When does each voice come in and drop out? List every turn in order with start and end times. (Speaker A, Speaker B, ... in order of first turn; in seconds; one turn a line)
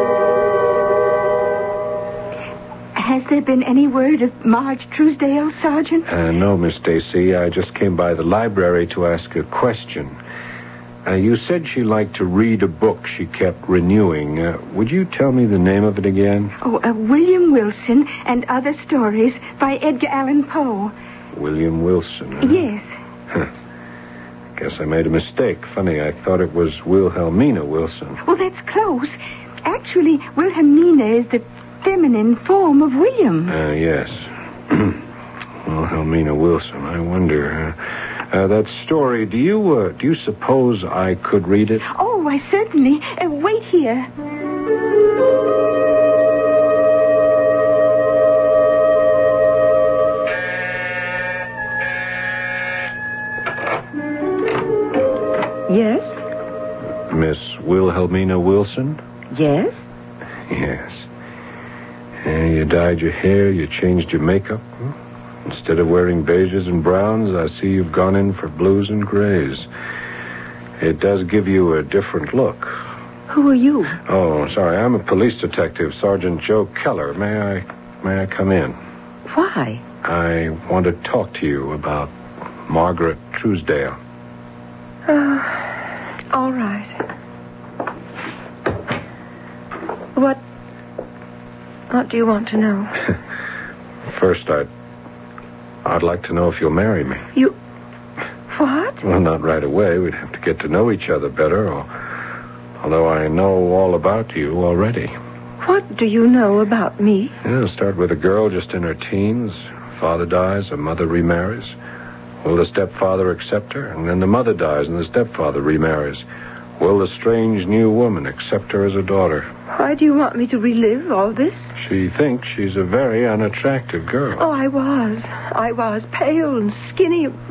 Speaker A: 2.9-6.1
Speaker B: 6.1-10.2
Speaker B: 11.0-16.5
Speaker A: 16.6-20.9
Speaker B: 21.3-22.7
Speaker A: 22.4-22.9
Speaker B: 24.6-28.2
Speaker A: 28.2-33.5
Speaker B: 33.5-35.0
Speaker B: 35.6-41.9
Speaker A: 41.9-44.1
Speaker C: 55.7-56.2
Speaker B: 57.1-59.0
Speaker C: 59.3-59.9
Speaker B: 60.5-61.0
Speaker B: 62.2-64.9
Speaker B: 65.4-69.7
Speaker B: 70.8-72.8
Speaker C: 73.3-74.0
Speaker B: 74.0-78.8
Speaker C: 79.3-79.8
Speaker B: 80.0-82.1
Speaker B: 82.6-84.0
Speaker C: 85.0-85.8
Speaker C: 86.3-86.9
Speaker C: 90.1-90.4
Speaker C: 91.9-93.0
Speaker B: 94.0-94.7
Speaker B: 95.8-97.2
Speaker C: 98.5-99.0
Speaker B: 99.0-101.9
Speaker B: 102.8-105.1
Speaker C: 105.6-107.3
Speaker B: 107.4-111.8
Speaker B: 112.4-116.2
Speaker B: 116.8-119.5
Speaker C: 119.7-121.7
Speaker B: 121.8-124.4
Speaker C: 124.4-127.3